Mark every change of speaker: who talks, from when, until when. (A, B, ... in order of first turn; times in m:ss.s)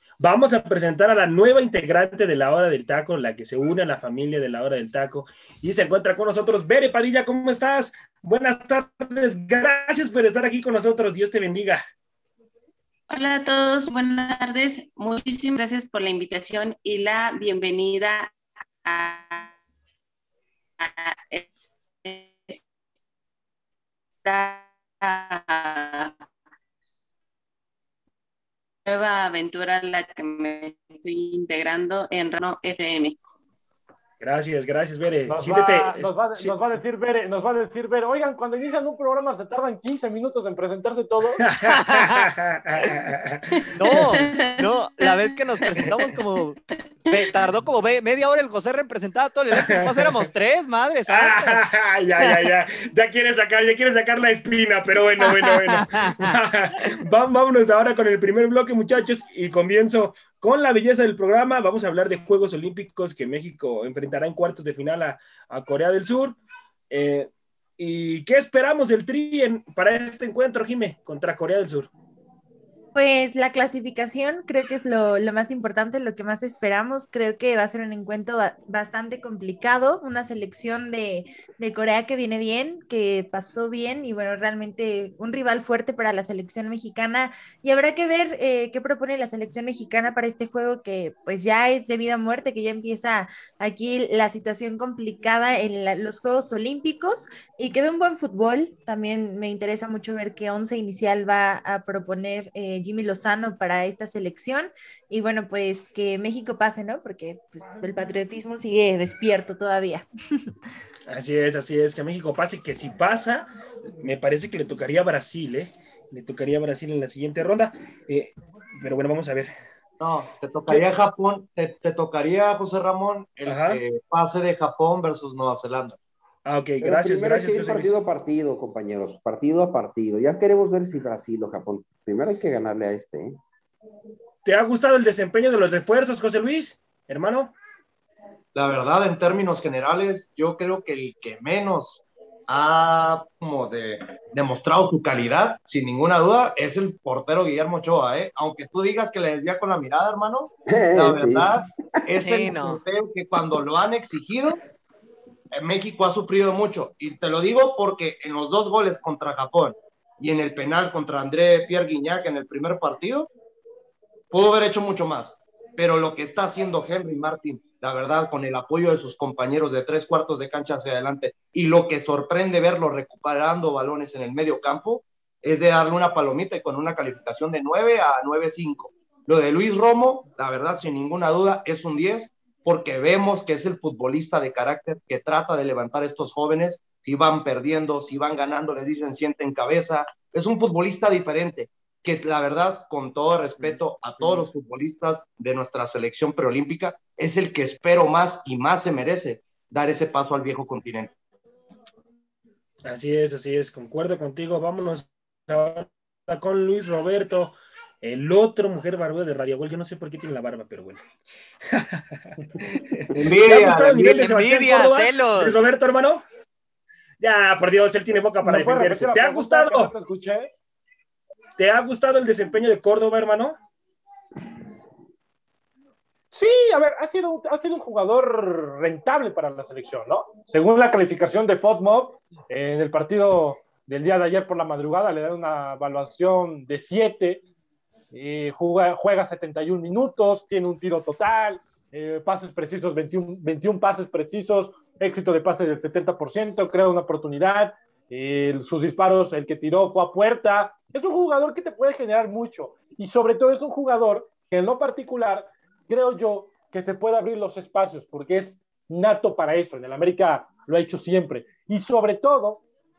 0:00.2-0:11.8 A
0:13.1-0:18.3 B
0:18.8-0:19.5 B
0:20.8-0:21.4 B
0:22.0-0:22.6 B
0:24.2-0:26.1 B
0:28.8-0:33.2 B
0:34.2-0:36.5 A
0:35.3-0:41.4 C
0:41.4-0:44.2 A
0:41.7-0:42.3 D
0:43.8-0:51.6 D
0:44.2-0:44.7 B
0:49.5-0:50.3 A
0:51.1-1:06.4 A
0:52.2-0:52.5 D
0:55.2-0:57.0 D
1:06.9-1:11.9 A
1:12.9-1:50.5 E
1:51.1-1:53.5 A
1:54.0-1:59.5 A
2:00.0-2:06.0 F
2:03.4-2:03.8 A
2:06.4-2:07.9 A
2:06.8-2:13.4 G
2:14.4-2:17.5 A
2:18.5-2:34.6 F
2:30.7-2:32.0 G
2:32.2-2:32.8 D
2:35.5-2:43.3 F
2:44.3-3:21.1 F
3:13.6-3:14.4 A
3:22.8-3:31.0 A
3:31.7-3:36.2 A
3:33.1-3:34.3 F
3:34.2-3:35.7 D
3:37.2-3:39.9 A
3:38.4-3:40.5 C
3:41.6-3:43.5 A
3:46.3-3:57.4 C
3:58.1-4:22.6 C